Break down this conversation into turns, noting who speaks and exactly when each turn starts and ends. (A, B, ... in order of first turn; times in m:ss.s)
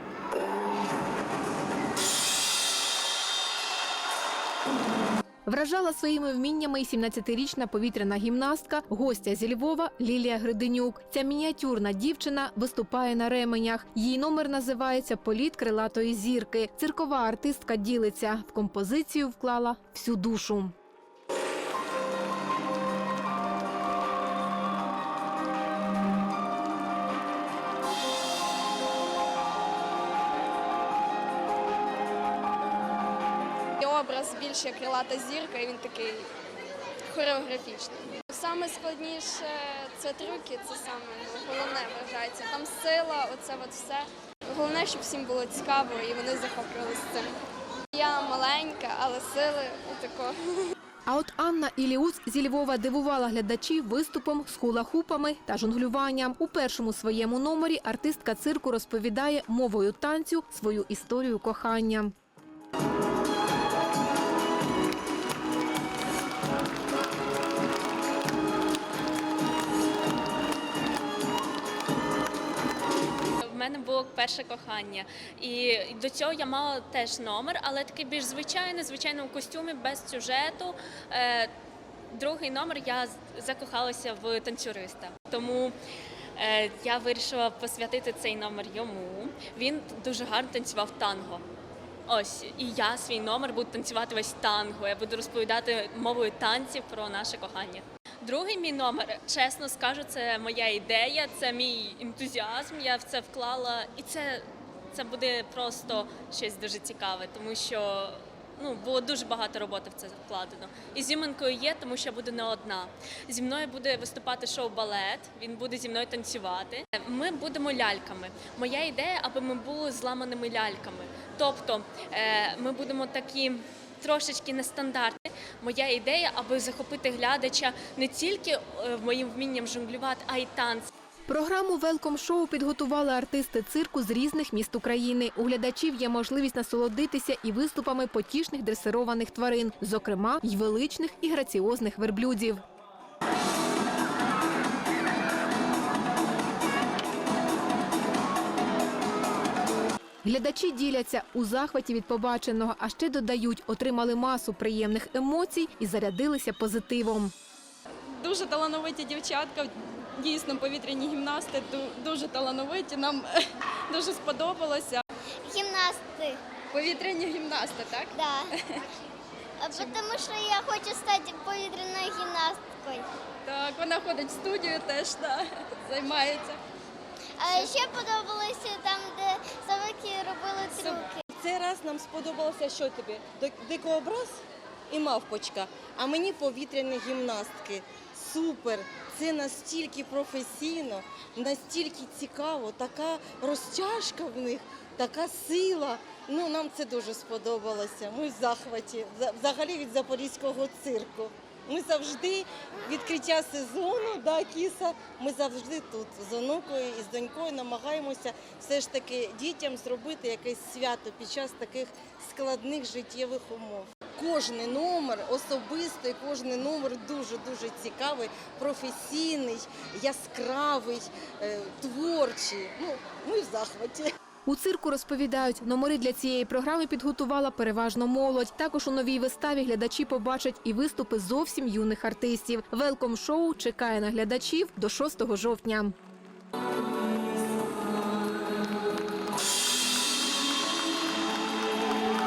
0:05.5-0:20.7 A
0:33.8-0:36.3 B
0:37.1-0:47.4 B
0:47.9-0:50.6 B
0:51.1-1:02.1 A
1:13.4-1:21.5 C
1:22.1-1:25.7 C
1:26.4-1:31.4 C
1:32.1-2:10.9 C
2:11.3-2:22.6 A
2:30.2-2:37.3 A
2:38.2-2:43.3 D
2:43.9-2:45.0 D
2:45.4-2:46.4 E
2:46.7-2:48.1 D
2:48.1-2:48.5 E
2:49.6-2:53.1 E
2:53.4-2:56.6 D
2:57.4-3:01.2 E
3:00.8-3:44.1 F
3:44.4-3:55.9 A